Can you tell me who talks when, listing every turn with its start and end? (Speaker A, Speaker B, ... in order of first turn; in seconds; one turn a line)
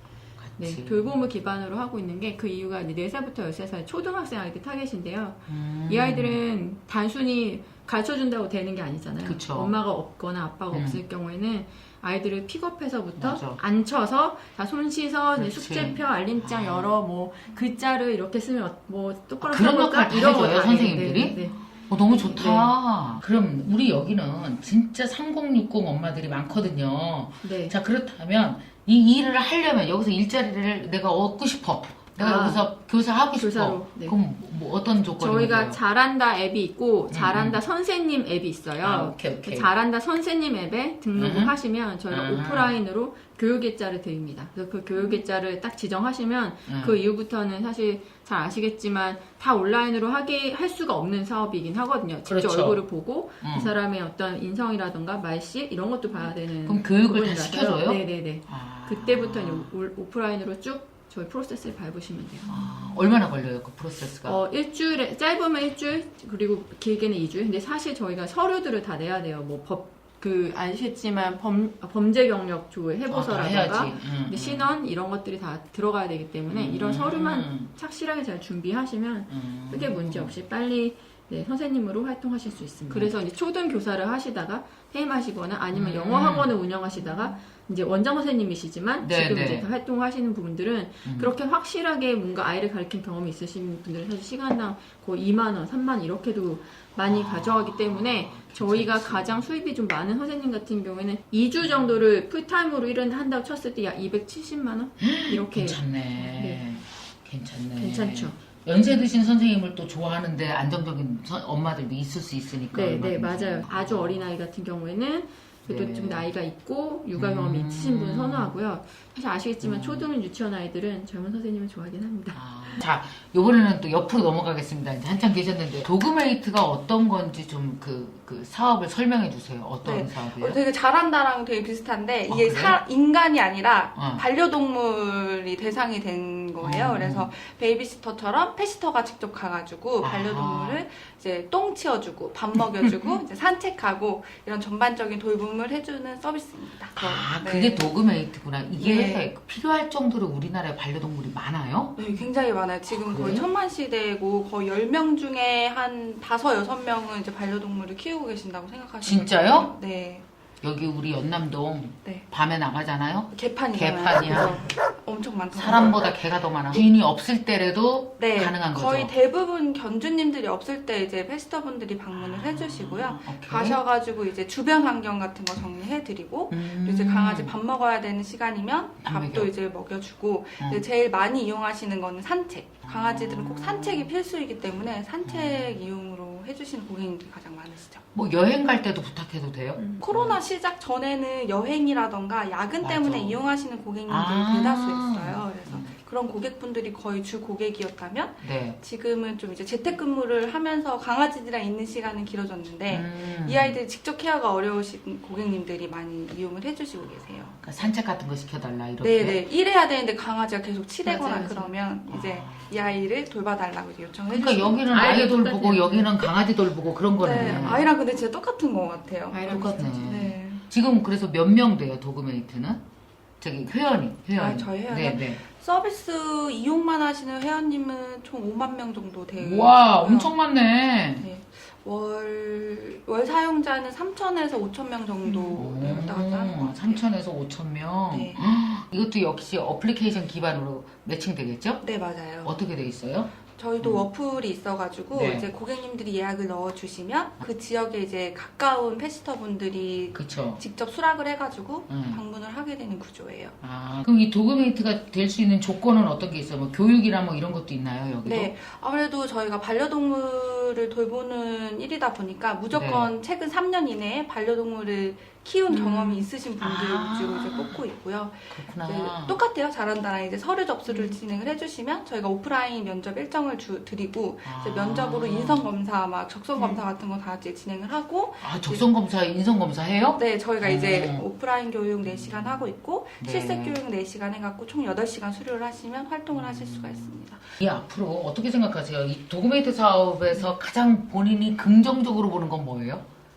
Speaker A: 0.4-1.1
Speaker B: 0.6-22.7
Speaker A: 5.5-6.4
Speaker A: 9.2-9.7
Speaker A: 10.7-11.0
Speaker A: 13.2-13.6
Speaker A: 15.4-16.9
Speaker A: 19.4-35.8
Speaker B: 27.4-27.7
Speaker B: 32.2-32.6
Speaker B: 33.4-34.2
Speaker B: 35.2-62.6
Speaker A: 37.1-37.6
Speaker A: 38.8-39.7
Speaker A: 41.1-41.5
Speaker A: 42.1-42.8
Speaker A: 46.7-47.0
Speaker A: 52.2-52.8
Speaker A: 53.4-53.7
Speaker A: 56.6-59.7
Speaker A: 62.5-64.4
Speaker B: 64.2-106.7
Speaker A: 73.1-74.7
Speaker A: 76.5-77.7
Speaker A: 79.3-80.3
Speaker A: 82.9-83.1
Speaker A: 85.7-86.5
Speaker A: 89.0-89.7
Speaker A: 91.0-91.3
Speaker A: 97.0-99.4
Speaker A: 105.0-114.2
Speaker B: 107.8-108.3
Speaker B: 112.7-122.4
Speaker A: 115.7-116.3
Speaker A: 117.2-118.5
Speaker A: 119.6-120.1
Speaker A: 122.3-130.6
Speaker C: 129.8-147.8
Speaker A: 132.3-132.8
Speaker A: 133.9-134.2
Speaker A: 136.6-137.3
Speaker A: 140.0-140.8
Speaker A: 147.0-152.0
Speaker C: 148.8-149.3
Speaker C: 152.0-160.2
Speaker A: 153.1-153.5
Speaker A: 159.0-159.7
Speaker A: 160.6-164.7
Speaker C: 163.3-166.1
Speaker A: 165.5-169.1
Speaker C: 168.2-188.0
Speaker A: 172.1-173.8
Speaker A: 176.5-177.5
Speaker A: 179.0-179.5
Speaker A: 182.8-184.1
Speaker A: 185.2-185.8
Speaker A: 188.1-190.3
Speaker B: 189.8-190.0
Speaker C: 190.0-207.6
Speaker A: 192.8-193.4
Speaker A: 194.1-196.0
Speaker A: 198.4-198.8
Speaker A: 202.9-203.8
Speaker A: 207.6-209.4
Speaker C: 209.0-215.1
Speaker B: 211.0-211.7
Speaker A: 212.1-212.8
Speaker A: 214.3-217.8
Speaker B: 214.9-216.1
Speaker C: 217.2-220.6
Speaker B: 217.3-217.9
Speaker B: 219.3-220.1
Speaker A: 219.4-222.8
Speaker A: 223.4-225.4
Speaker C: 224.3-230.3
Speaker A: 229.4-231.3
Speaker C: 231.2-237.0
Speaker A: 235.5-241.8
Speaker C: 238.1-238.4
Speaker C: 241.8-242.6
Speaker A: 242.4-244.0
Speaker C: 243.5-253.6
Speaker A: 245.1-245.5
Speaker A: 250.1-250.6
Speaker A: 251.9-252.2
Speaker A: 253.6-258.5
Speaker C: 258.2-278.9
Speaker A: 262.7-263.1
Speaker A: 265.7-267.8
Speaker A: 268.5-269.4
Speaker B: 270.9-271.1
Speaker A: 274.4-275.7
Speaker A: 278.4-281.2
Speaker C: 280.1-287.4
Speaker A: 282.1-282.6
Speaker A: 283.2-283.8
Speaker A: 286.3-293.1